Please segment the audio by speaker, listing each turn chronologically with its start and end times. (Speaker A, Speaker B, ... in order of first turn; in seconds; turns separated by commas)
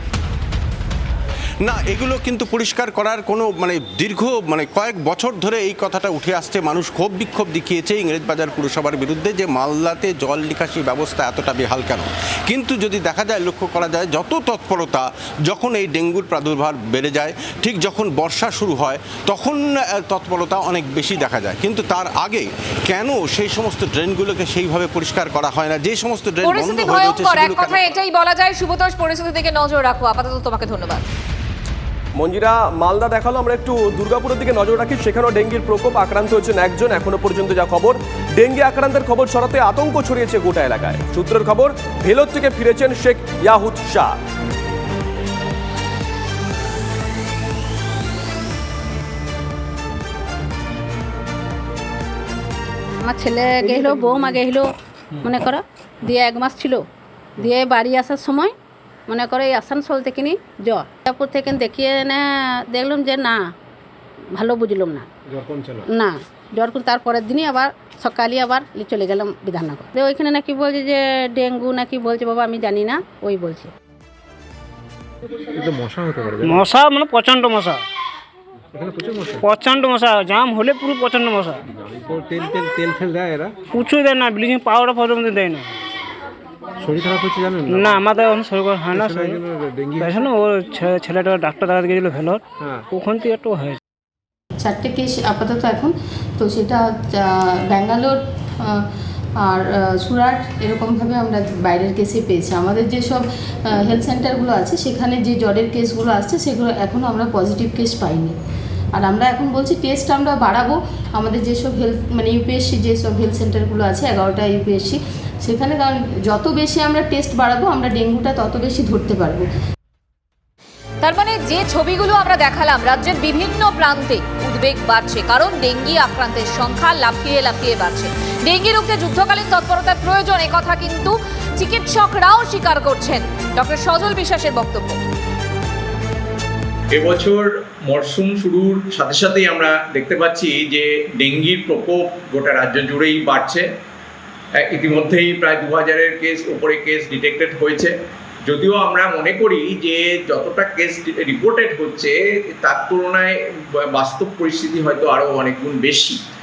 Speaker A: 1.6-28.0, Speaker B: 26.4-31.0, Speaker C: 32.2-44.1, Speaker D: 53.0-56.8, Speaker D: 57.4-58.5, Speaker D: 59.1-63.4, Speaker D: 64.3-65.1, Speaker E: 65.4-65.8, Speaker D: 65.8-73.7, Speaker E: 75.5-76.6, Speaker F: 76.4-77.8, Speaker E: 78.7-79.4, Speaker F: 79.4-81.6, Speaker E: 81.8-83.6, Speaker F: 83.7-85.7, Speaker E: 86.8-88.0, Speaker F: 87.7-89.4, Speaker E: 88.8-90.3, Speaker F: 90.0-93.8, Speaker G: 94.6-98.8, Speaker G: 99.4-103.2, Speaker G: 103.8-108.3, Speaker G: 109.0-119.5, Speaker B: 121.0-135.0, Speaker H: 136.9-143.7, Speaker H: 144.6-147.9, Speaker H: 148.5-153.4, Speaker H: 153.9-156.2